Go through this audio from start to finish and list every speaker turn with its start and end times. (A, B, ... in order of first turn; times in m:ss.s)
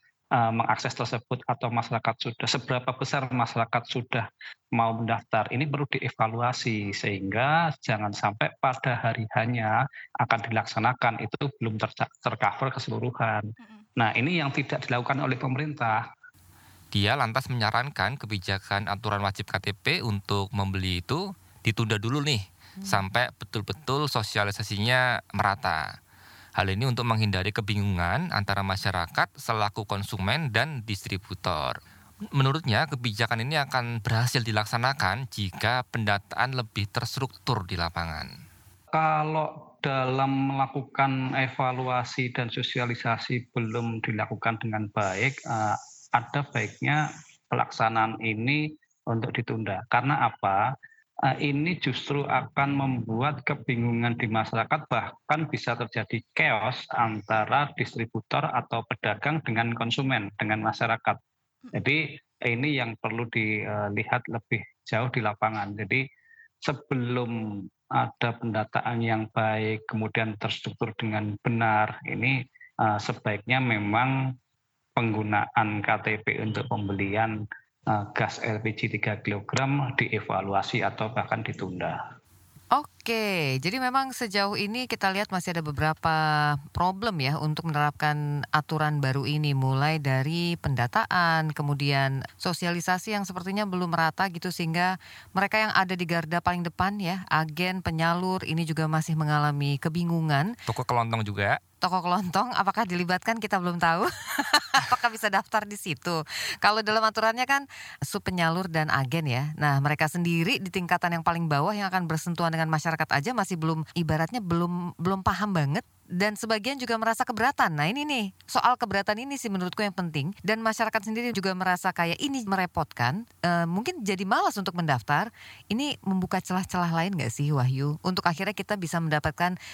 0:00.4-0:16.0 A
0:16.9-0:25.8 B
0:26.6-0:31.8 B
0:32.4-0:38.3 B
0:38.9-0:50.6 A
0:51.4-1:01.2 A
1:01.7-1:06.0 A
1:06.6-1:07.3 A
1:08.0-1:14.3 A
1:15.0-1:22.0 A
1:22.8-1:40.5 C
1:40.7-1:41.6 B
1:41.8-2:09.6 C